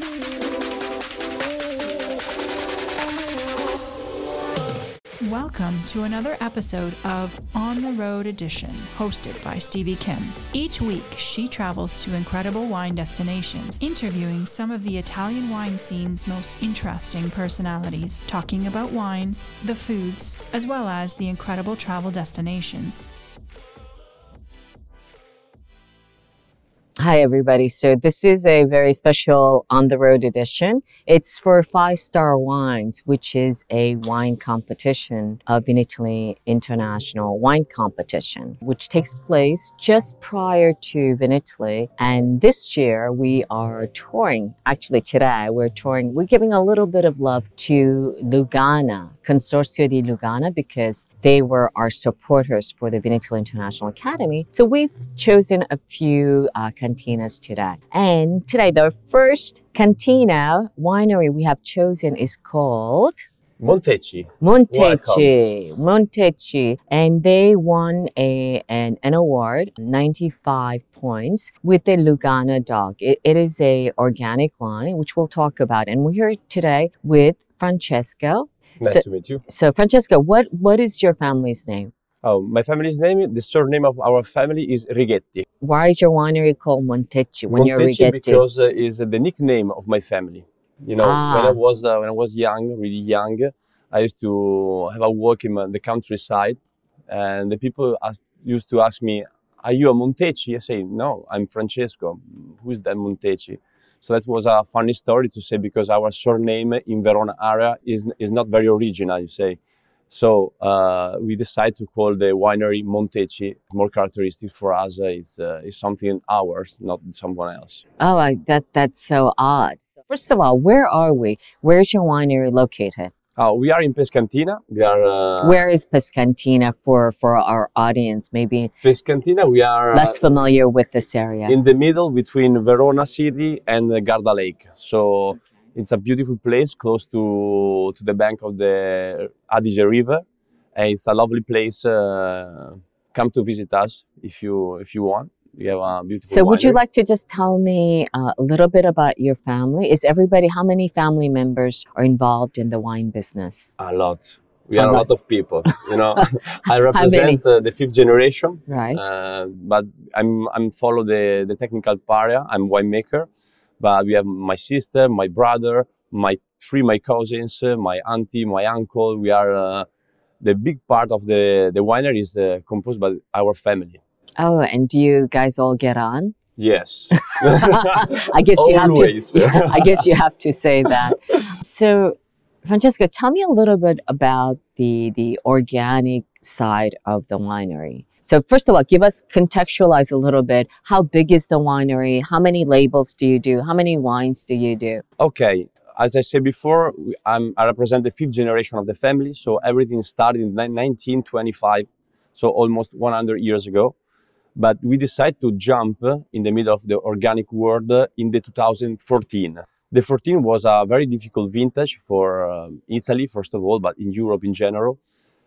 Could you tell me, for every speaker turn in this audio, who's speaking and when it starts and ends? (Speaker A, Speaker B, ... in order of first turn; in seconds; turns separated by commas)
Speaker A: 5.2-23.1, Speaker B: 27.0-63.3, Speaker C: 63.6-65.3, Speaker B: 64.4-81.9, Speaker C: 78.8-79.4, Speaker C: 82.2-85.4, Speaker B: 85.6-88.4, Speaker C: 87.5-117.8, Speaker B: 91.0-91.6, Speaker B: 118.0-123.1, Speaker C: 123.4-125.6, Speaker B: 125.4-128.7, Speaker C: 128.8-130.2, Speaker B: 129.9-131.6, Speaker C: 131.5-140.2, Speaker C: 140.7-146.8, Speaker B: 146.3-153.7, Speaker C: 153.8-163.3, Speaker B: 154.8-155.1, Speaker B: 155.7-156.2, Speaker B: 156.9-157.4, Speaker B: 158.7-159.0, Speaker C: 163.8-169.8, Speaker C: 170.4-174.0, Speaker B: 174.4-176.3, Speaker C: 176.6-180.0, Speaker B: 177.2-195.0, Speaker C: 195.2-203.9, Speaker C: 204.6-215.0